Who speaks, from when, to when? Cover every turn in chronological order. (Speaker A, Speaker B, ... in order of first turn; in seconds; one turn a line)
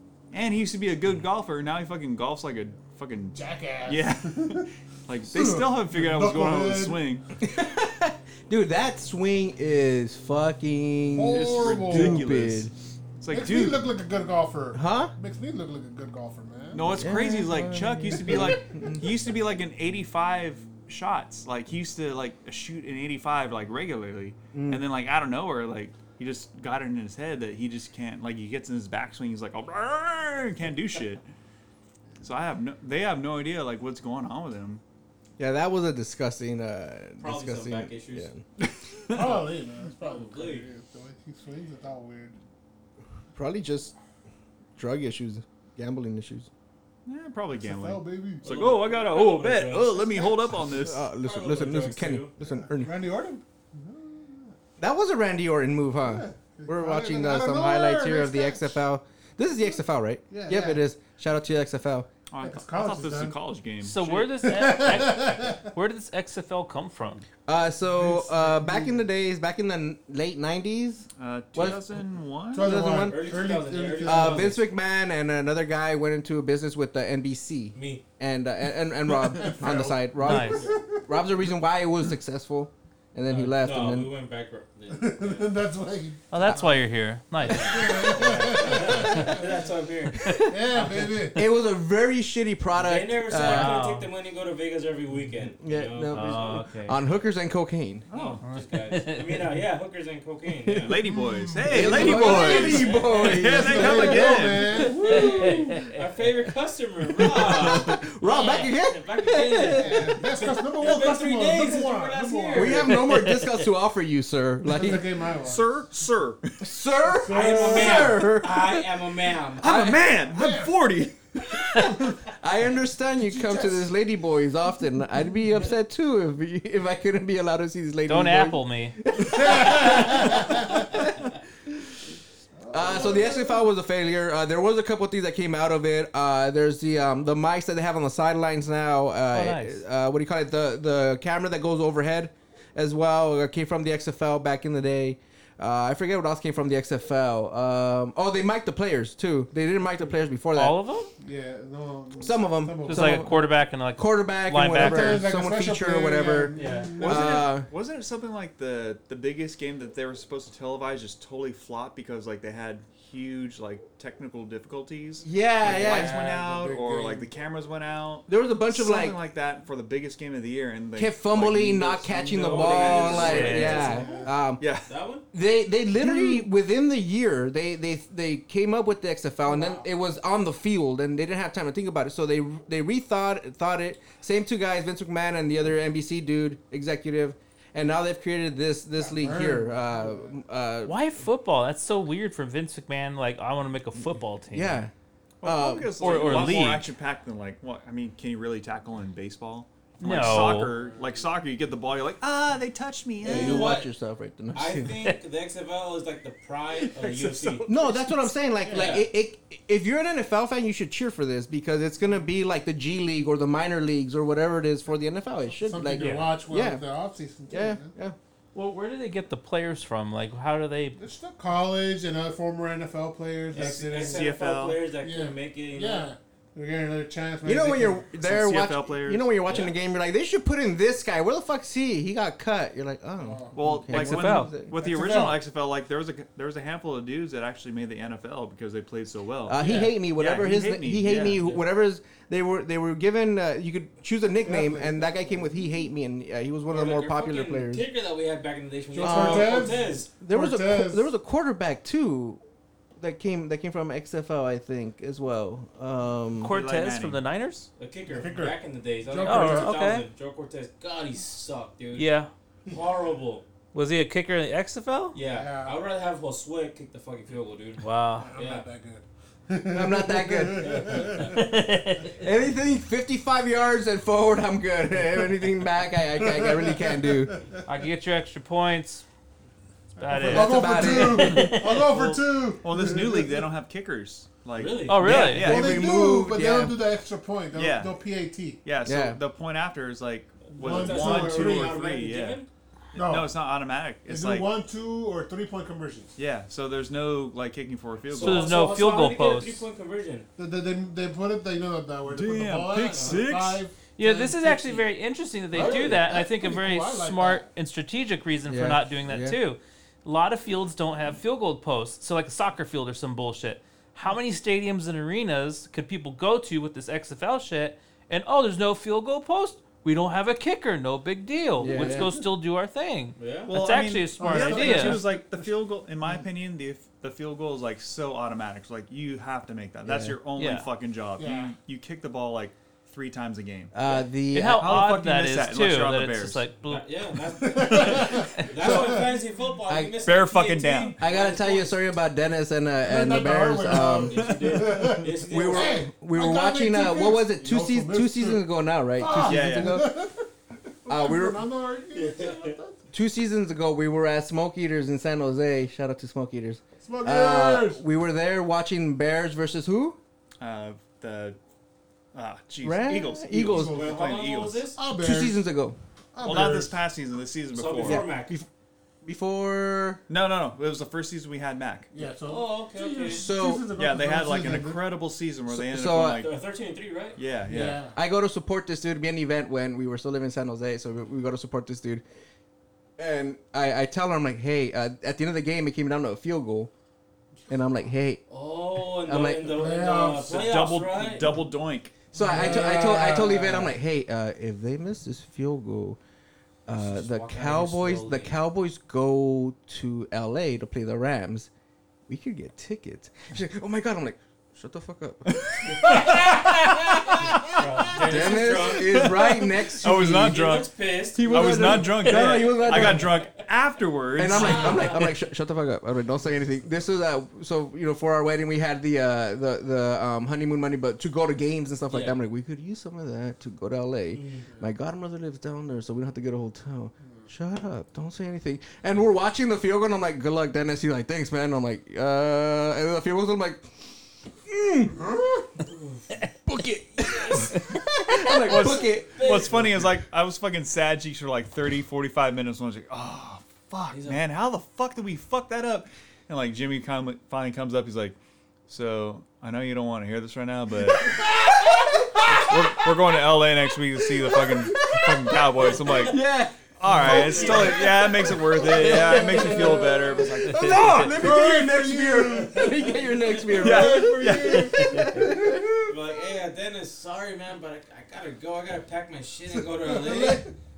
Speaker A: 0.3-7.2
Speaker B: 3.3-4.7
Speaker B: 5.3-7.0
Speaker C: 7.4-12.7
Speaker B: 11.1-12.3
Speaker A: 11.3-13.8
Speaker B: 13.3-16.8
Speaker C: 14.7-15.1
Speaker A: 16.7-31.2
Speaker C: 16.9-19.1
Speaker C: 24.5-24.8
Speaker A: 32.2-34.8
Speaker C: 35.4-38.4
Speaker D: 37.2-38.3
Speaker A: 39.1-39.5
Speaker B: 39.1-42.4
Speaker D: 40.0-40.7
Speaker C: 43.3-43.9
Speaker C: 44.8-46.5
Speaker A: 47.0-51.1
Speaker B: 47.6-48.7
Speaker D: 48.4-50.5
Speaker C: 50.7-53.0
Speaker D: 51.1-52.3
Speaker B: 52.4-54.5
Speaker C: 54.8-62.1
Speaker B: 56.0-58.8
Speaker B: 60.3-60.8
Speaker A: 62.3-64.3
Speaker B: 62.4-63.3
Speaker E: 63.8-67.2
Speaker B: 64.3-65.7
Speaker C: 67.5-71.8
Speaker B: 67.8-69.1
Speaker A: 71.2-72.7
Speaker B: 72.5-74.6
Speaker C: 72.5-73.4
Speaker D: 73.0-74.7
Speaker C: 74.0-84.1
Speaker D: 77.7-78.0
Speaker B: 79.1-81.1
Speaker E: 80.2-80.6
Speaker D: 80.4-80.7
Speaker D: 83.2-85.6
Speaker B: 84.9-86.8
Speaker E: 86.3-87.8
Speaker D: 87.4-91.3
Speaker B: 87.5-89.6
Speaker B: 90.4-91.4
Speaker C: 91.3-93.8
Speaker D: 92.7-96.6
Speaker E: 93.3-94.1
Speaker C: 95.6-98.1
Speaker E: 96.1-97.0
Speaker A: 98.1-98.4
Speaker D: 98.1-101.0
Speaker E: 98.4-99.5
Speaker C: 100.6-100.9
Speaker A: 100.8-104.8
Speaker B: 101.1-105.8
Speaker C: 101.7-105.2
Speaker D: 101.8-103.4
Speaker D: 104.8-112.9
Speaker E: 105.1-105.8
Speaker C: 107.2-110.1
Speaker B: 108.2-108.7
Speaker B: 109.6-113.0
Speaker C: 112.5-115.1
Speaker E: 112.9-113.7
Speaker B: 114.7-115.7
Speaker A: 115.4-116.5
Speaker C: 116.6-118.8
Speaker B: 117.0-118.4
Speaker D: 117.3-120.0
Speaker A: 119.6-121.2
Speaker C: 119.6-120.0
Speaker B: 120.2-120.7
Speaker C: 121.5-131.0
Speaker B: 121.7-122.2
Speaker B: 123.3-123.8
Speaker E: 128.1-128.9
Speaker B: 129.2-130.9
Speaker B: 132.6-133.7
Speaker C: 132.7-150.7
Speaker E: 139.3-139.8
Speaker E: 150.6-151.1
Speaker B: 151.2-153.5
Speaker C: 152.2-153.3
Speaker E: 152.8-155.3
Speaker C: 153.9-157.7
Speaker B: 154.7-157.4
Speaker D: 156.5-157.0
Speaker A: 157.0-173.7
Speaker C: 165.2-166.1
Speaker D: 165.7-166.2
Speaker B: 165.8-167.3
Speaker C: 168.3-169.2
Speaker C: 170.9-174.6
Speaker D: 172.2-174.3
Speaker B: 172.8-174.3
Speaker E: 173.2-173.8
Speaker A: 174.6-174.9
Speaker D: 174.8-175.2
Speaker C: 175.3-190.9
Speaker B: 179.4-179.8
Speaker B: 189.0-190.3
Speaker E: 190.8-194.8
Speaker C: 194.5-194.9
Speaker A: 195.4-203.8
Speaker C: 195.4-196.0
Speaker E: 196.0-196.9
Speaker D: 196.0-196.7
Speaker E: 200.0-200.7
Speaker D: 203.2-203.9
Speaker C: 203.2-205.0
Speaker D: 204.5-207.7
Speaker C: 207.7-216.8
Speaker B: 208.6-209.0
Speaker D: 208.7-209.1
Speaker B: 215.6-217.9
Speaker E: 215.9-216.3
Speaker C: 217.5-218.2
Speaker E: 218.5-221.0
Speaker B: 221.0-224.4
Speaker D: 223.5-226.1
Speaker A: 223.6-224.8
Speaker B: 225.0-228.1
Speaker C: 227.4-234.7
Speaker A: 228.2-229.3
Speaker D: 229.4-229.7
Speaker B: 233.2-233.6
Speaker A: 233.5-241.4
Speaker E: 233.9-234.5
Speaker B: 234.7-235.4
Speaker C: 239.5-247.9
Speaker D: 239.6-239.9
Speaker D: 241.4-241.6
Speaker B: 244.4-245.7
Speaker D: 246.7-250.2
Speaker B: 248.9-251.1
Speaker C: 249.0-252.4
Speaker C: 253.0-256.5
Speaker E: 256.4-257.7
Speaker A: 256.4-257.2
Speaker D: 257.8-262.1
Speaker B: 258.1-259.8
Speaker E: 259.2-260.1
Speaker E: 261.9-262.3
Speaker D: 262.7-263.4
Speaker E: 263.7-265.2
Speaker D: 265.1-268.7
Speaker B: 265.2-265.9
Speaker E: 267.8-268.3
Speaker B: 268.2-271.4
Speaker C: 269.7-270.8
Speaker D: 270.6-271.4
Speaker E: 271.2-272.2
Speaker C: 272.2-277.3
Speaker B: 276.2-277.5
Speaker E: 277.6-279.0
Speaker E: 280.0-281.7
Speaker B: 280.0-283.5
Speaker C: 280.2-281.5
Speaker A: 281.9-285.9
Speaker D: 284.6-285.3
Speaker E: 284.9-285.5
Speaker C: 285.0-286.8
Speaker B: 285.4-288.6
Speaker A: 287.5-288.0
Speaker A: 288.6-294.5
Speaker C: 288.8-289.2
Speaker D: 290.4-292.5
Speaker B: 290.6-291.8
Speaker B: 292.9-293.4
Speaker B: 294.1-296.1
Speaker A: 296.2-298.6
Speaker D: 298.1-300.3
Speaker E: 298.2-299.7
Speaker B: 300.4-304.8
Speaker A: 302.1-303.6
Speaker D: 302.9-303.2
Speaker E: 304.0-325.1
Speaker D: 305.5-306.1
Speaker B: 305.5-307.5
Speaker C: 308.5-309.4
Speaker C: 321.6-322.2
Speaker D: 323.2-323.5
Speaker A: 323.5-333.7
Speaker B: 324.2-325.5
Speaker C: 329.8-330.2
Speaker E: 330.4-330.7
Speaker B: 331.2-331.5
Speaker C: 333.7-334.8
Speaker E: 334.3-336.9
Speaker A: 334.6-336.4
Speaker D: 336.6-341.8
Speaker B: 337.4-339.2
Speaker C: 339.7-340.0
Speaker A: 340.0-341.0
Speaker C: 341.0-344.4
Speaker B: 342.8-350.3
Speaker D: 343.7-345.9
Speaker C: 345.3-350.1
Speaker A: 349.1-349.8
Speaker B: 350.8-352.8
Speaker C: 350.9-351.4
Speaker D: 351.9-352.6
Speaker C: 352.9-360.0
Speaker B: 356.8-357.8
Speaker A: 360.4-361.4
Speaker A: 362.1-364.7
Speaker C: 362.6-363.7
Speaker B: 363.3-364.2
Speaker D: 363.6-364.8
Speaker B: 364.7-365.4
Speaker C: 364.9-365.8
Speaker B: 366.1-366.8
Speaker A: 366.2-368.1
Speaker D: 367.5-368.4
Speaker C: 367.8-368.5
Speaker C: 369.0-370.0
Speaker A: 370.1-371.9
Speaker B: 371.9-374.8
Speaker D: 372.0-373.3
Speaker C: 373.1-373.7
Speaker A: 373.7-376.3
Speaker C: 375.5-376.2
Speaker D: 376.2-377.2
Speaker A: 377.2-377.8
Speaker B: 377.5-378.0
Speaker C: 377.9-382.0
Speaker C: 383.0-386.7
Speaker C: 387.5-388.2
Speaker D: 388.3-391.3
Speaker C: 389.0-389.6
Speaker B: 389.4-390.3
Speaker A: 390.2-391.9
Speaker B: 392.1-393.7
Speaker C: 392.1-396.0
Speaker D: 392.2-392.8
Speaker C: 396.7-401.5
Speaker D: 396.7-398.4
Speaker C: 402.1-407.3
Speaker A: 405.3-406.1
Speaker D: 405.7-406.5
Speaker D: 407.3-409.2
Speaker C: 407.9-410.4
Speaker A: 408.9-410.7
Speaker D: 410.1-413.2
Speaker C: 411.1-413.1
Speaker A: 411.2-415.0
Speaker C: 414.2-433.8
Speaker D: 414.3-415.1
Speaker D: 421.9-422.2
Speaker D: 424.1-424.4
Speaker C: 434.4-435.1
Speaker B: 434.9-435.4
Speaker D: 435.7-436.0
Speaker C: 436.4-439.3
Speaker D: 436.9-437.6
Speaker A: 438.3-448.2
Speaker D: 438.4-439.9
Speaker D: 443.9-444.2
Speaker A: 448.7-451.1
Speaker C: 451.1-452.6
Speaker A: 452.3-456.2
Speaker C: 454.1-459.9
Speaker D: 455.8-456.2
Speaker A: 456.8-461.2
Speaker B: 456.9-465.6
Speaker D: 457.1-457.8
Speaker C: 460.4-465.9
Speaker D: 462.6-463.7
Speaker A: 463.5-465.0
Speaker D: 465.8-470.5
Speaker B: 469.8-470.5